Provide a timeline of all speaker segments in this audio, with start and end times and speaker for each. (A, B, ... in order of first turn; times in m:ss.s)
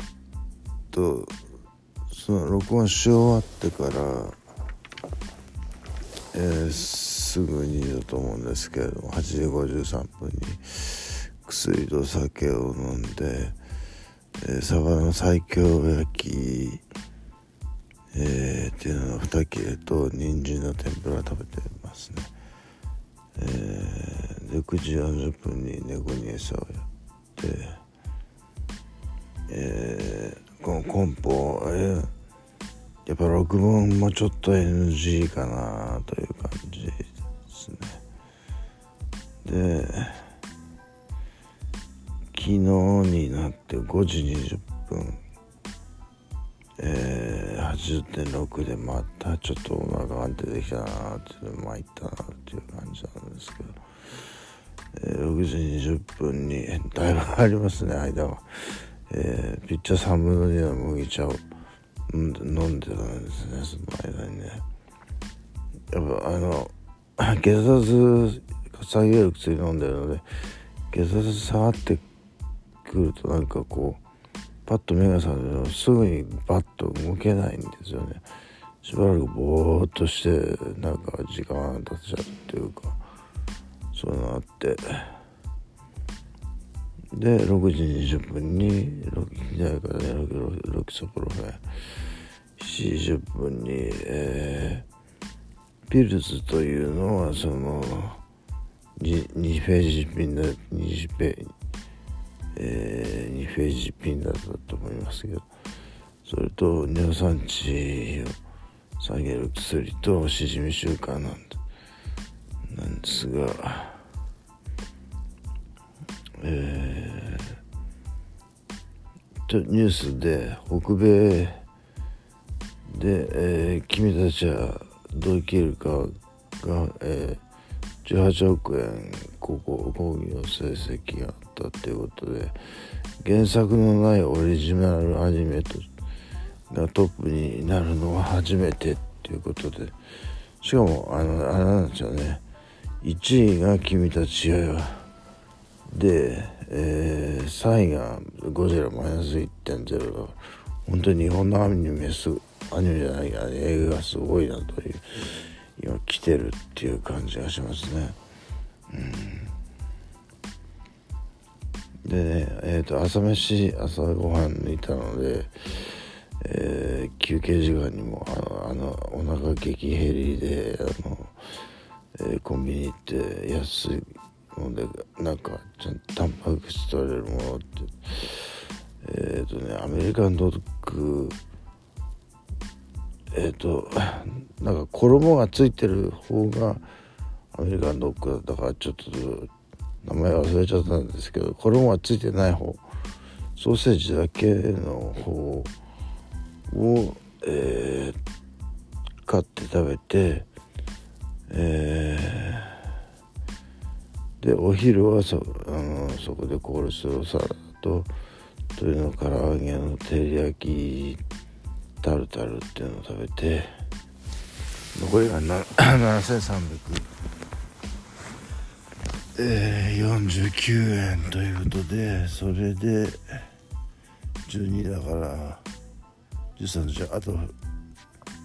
0:00.9-0:01.4 A
0:02.1-0:04.4 A
0:06.3-0:13.6 A
0:14.4-0:16.8 A
0:18.1-0:22.3 A
0:23.4-0:27.8 A
0:29.5-0:32.1 A
0:33.0-0:38.0 A
0:39.4-0:40.3 A
0:42.3-0:45.2 A
0:46.8-0:53.8 A
0:54.9-1:01.4 A
1:02.1-1:04.6 A
1:05.9-1:10.3 A
1:10.9-1:12.0 A
1:12.8-1:14.0 A
1:14.6-1:18.2 A
1:18.8-1:23.0 A
1:23.9-1:25.2 A
1:27.1-1:31.6 A
1:32.6-1:34.8 A
1:35.9-1:38.2 A
1:39.0-1:41.5 A
1:42.5-1:45.5 A
1:46.2-1:48.4 A
1:49.0-1:51.6 A
1:52.6-1:54.0 A
1:56.4-1:57.6 A
1:59.5-2:01.6 A
2:02.8-2:07.4 A
2:08.0-2:15.9 A
2:16.7-2:19.9 A
2:20.6-2:22.4 A
2:23.0-2:25.1 A
2:25.9-2:38.2 A
2:38.9-2:39.5 A
2:42.0-2:51.5 A
2:52.1-3:01.4 A
3:03.3-3:06.9 A
3:07.5-3:09.5 A
3:10.0-3:12.8 A
3:13.6-3:15.7 A
3:16.7-3:18.2 A
3:19.2-3:20.5 A
3:21.5-3:22.9 A
3:24.4-3:28.1 A
3:28.7-3:31.2 A
3:32.0-3:33.8 A
3:34.9-3:37.1 A
3:39.3-3:43.5 A
3:44.4-3:45.6 A
3:46.6-3:47.5 A